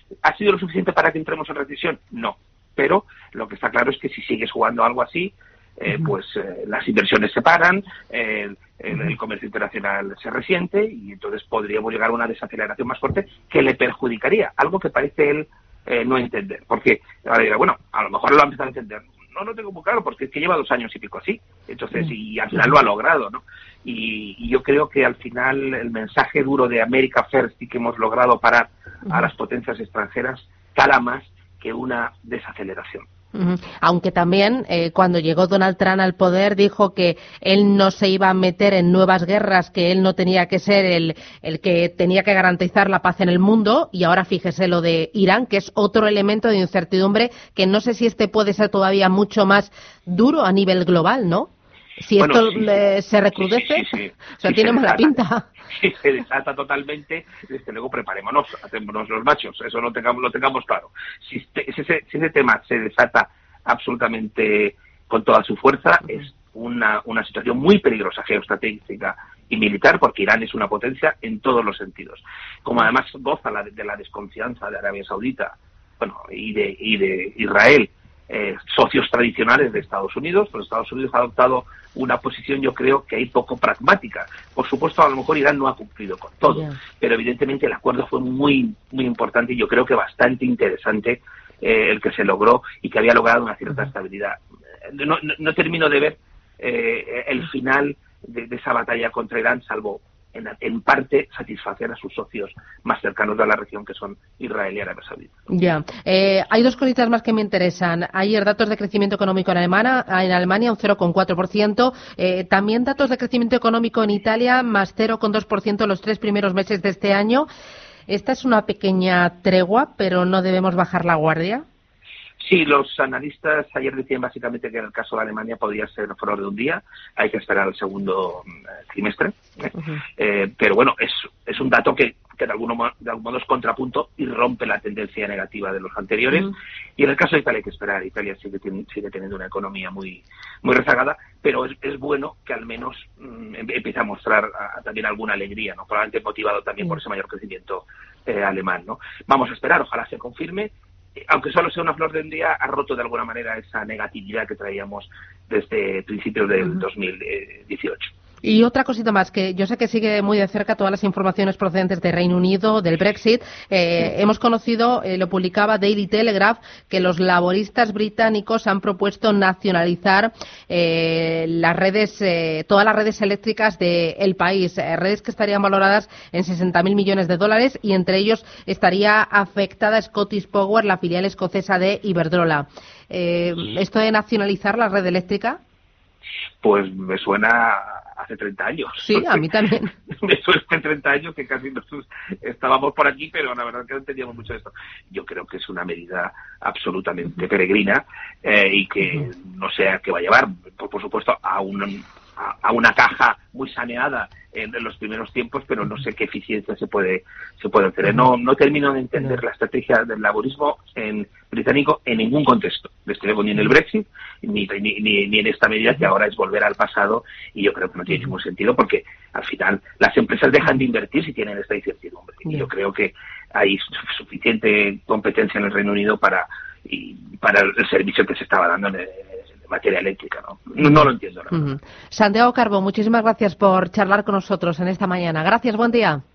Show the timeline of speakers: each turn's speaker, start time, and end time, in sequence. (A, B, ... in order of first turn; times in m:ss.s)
0:00.2-0:33.1 A
0:33.3-0:55.5 B
0:52.2-0:52.8 A
0:53.4-0:55.2 A
0:55.7-1:45.3 A
1:26.5-1:26.8 B
1:45.5-1:57.5 B
1:58.1-2:01.6 B
2:02.4-2:09.4 A
2:09.8-2:10.0 B
2:10.2-2:38.1 A
2:38.4-3:05.6 B
3:06.6-3:09.5 A
3:09.0-3:09.9 B
3:10.1-3:51.7 A
3:50.8-3:56.2 B